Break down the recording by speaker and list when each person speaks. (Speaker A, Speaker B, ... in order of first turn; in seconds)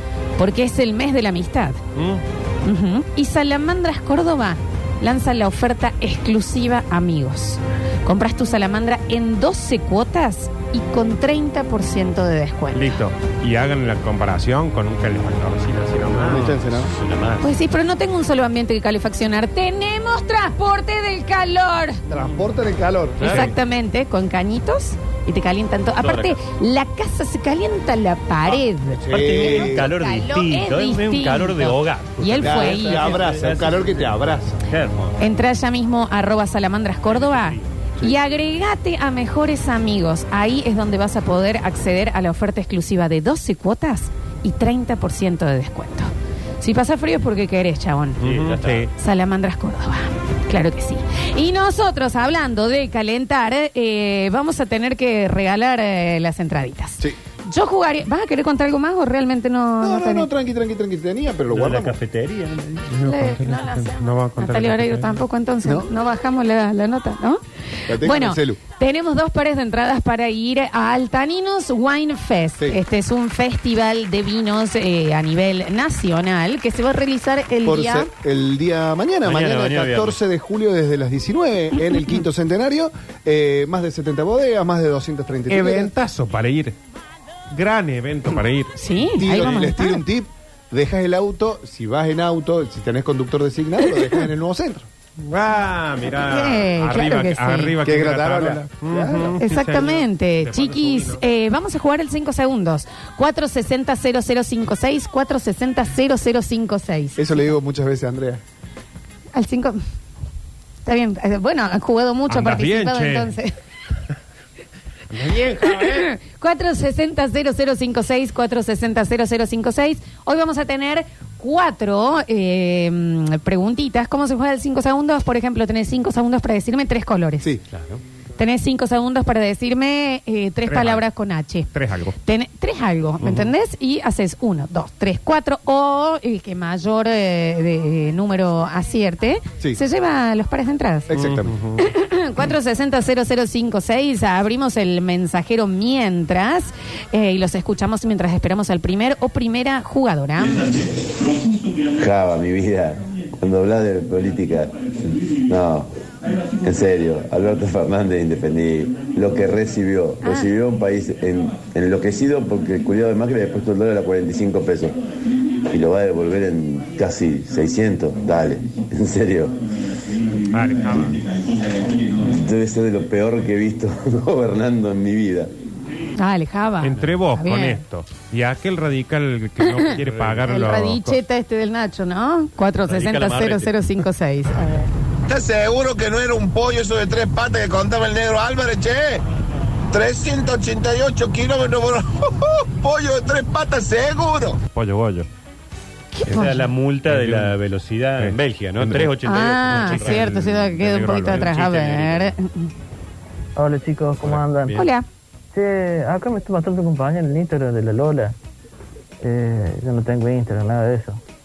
Speaker A: 0.4-1.8, 2.6-12.9, 17.4-22.0, 23.2-33.2, 35.2-46.1, 46.6-48.2, 48.9-60.3, 63.0-67.4, 67.9-78.1, 81.9-82.2, 88.8-90.0, 96.2-97.8, 99.4-107.5, 109.3-109.8, 110.8-113.5, 115.6-127.5, 128.4-131.7, 132.2-141.1, 141.8-150.8, 160.2-160.5, 176.2-177.8, 179.6-179.9, 180.4-184.9, 196.1-196.6, 199.2-202.7, 204.7-205.1
Speaker B: 1.9-2.2, 12.7-16.5, 23.2-23.5, 48.2-48.9, 62.9-65.2, 85.5-86.7, 87.5-89.5, 95.2-101.2, 112.3-113.3, 115.1-116.1, 130.7-131.1, 131.7-132.2, 133.2-133.5, 141.1-141.9, 170.5-171.2, 176.8-181.2, 194.7-195.3, 196.3-197.6, 198.2-199.1, 199.6-202.3, 204.2-204.8
Speaker C: 16.2-16.9, 22.1-23.4, 28.9-29.9, 32.4-34.6, 59.8-62.0, 67.9-68.6, 77.6-85.9, 89.1-94.9, 97.8-99.4, 107.2-108.4, 141.1-141.5
Speaker D: 16.3-17.5, 23.2-23.5, 26.0-26.4, 29.1-35.2, 37.1-37.8, 48.2-48.9, 61.5-62.9, 79.2-80.2, 127.7-128.0, 180.0-180.4, 182.9-183.7, 196.3-200.3
Speaker E: 152.0-155.9, 156.6-165.0, 165.7-169.6, 172.2-175.5
Speaker F: 185.3-189.2, 189.9-194.6
Speaker G: 203.6-204.9, 205.5-208.3, 209.2-211.2